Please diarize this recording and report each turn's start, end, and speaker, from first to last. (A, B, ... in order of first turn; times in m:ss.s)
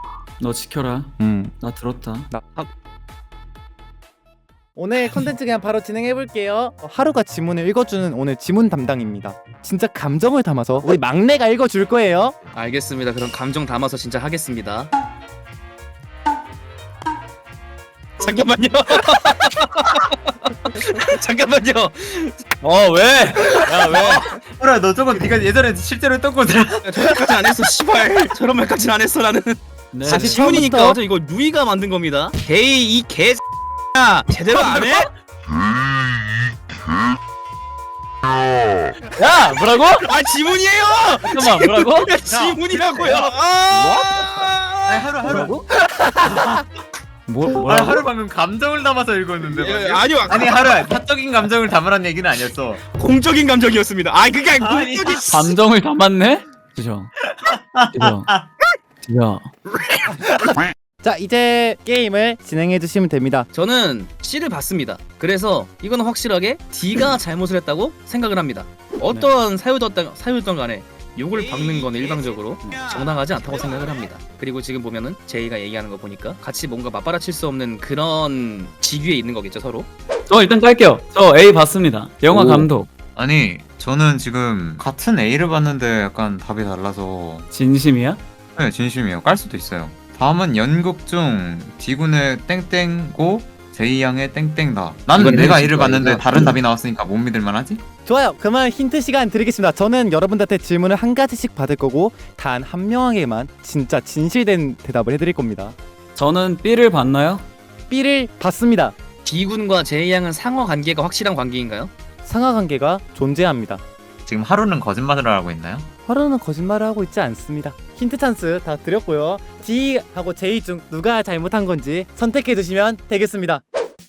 0:00.4-0:02.3 A
0:01.2-0:01.5 B
0:04.8-0:12.4 B
0:12.5-0:14.9 C
0:18.2-0:24.3 C
0:23.9-0:27.4 D
0:26.8-0:33.4 C
0:29.9-0:30.3 A
0:30.1-0:31.0 B
0:33.9-0:35.1 C
0:34.6-0:35.0 A
0:39.2-0:40.1 A
0:40.0-0:45.1 C
0:41.2-0:42.1 A
0:42.3-0:43.3 D
0:44.9-0:45.6 D
0:46.2-0:46.6 D
0:47.3-0:48.0 A
0:47.6-0:52.8 D
0:49.4-0:50.7 C
0:52.9-0:55.6 C
0:54.6-0:55.4 D
0:55.3-0:57.1 A
0:57.4-0:58.5 D
0:57.9-0:58.3 A
0:59.0-0:59.5 A
1:00.3-1:03.5 B
1:03.5-1:19.9 C
1:20.3-1:22.9 A
1:22.4-1:22.6 C
1:23.2-1:27.5 D
1:27.5-1:28.2 A
1:28.6-1:37.8 D
1:35.1-1:36.6 C
1:38.1-1:45.8 B
1:46.2-1:47.5 A
1:47.9-1:49.0 B
1:49.2-1:51.9 C
1:52.2-1:53.8 B
1:54.3-1:55.9 D
1:56.1-2:03.6 B